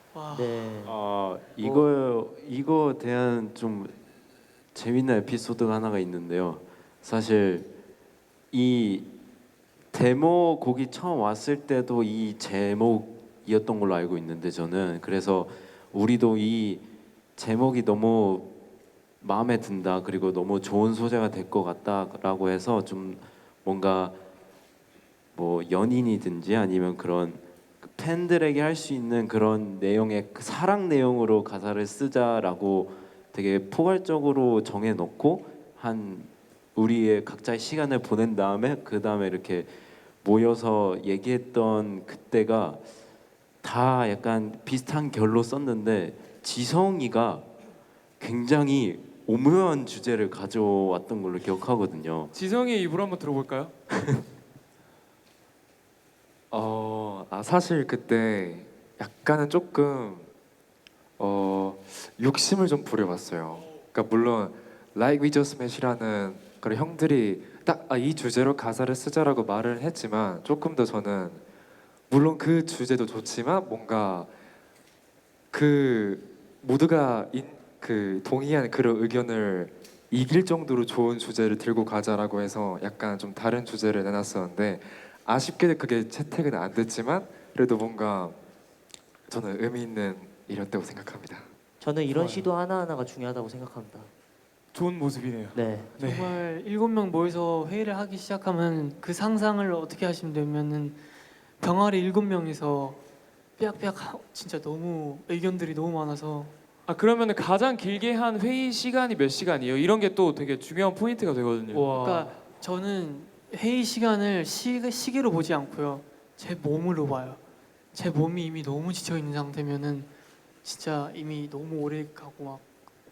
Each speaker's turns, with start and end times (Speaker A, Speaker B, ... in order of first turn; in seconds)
Speaker A: 0.1-0.7, 96.0-101.0, 101.6-103.0, 103.6-106.5, 111.7-117.4, 117.9-120.1, 120.6-122.7
Speaker B: 0.3-0.9, 1.6-1.9, 91.8-94.1, 95.5-96.0
Speaker C: 0.8-4.0, 4.7-7.7, 8.5-9.1, 9.9-16.9, 17.4-18.5, 19.2-24.2, 25.4-42.8, 43.6-47.5, 48.2-52.3
Speaker D: 52.3-53.7, 94.7-96.2, 106.9-112.1
Speaker E: 56.5-60.3, 61.2-71.4, 72.1-74.3, 75.5-88.4, 89.3-91.5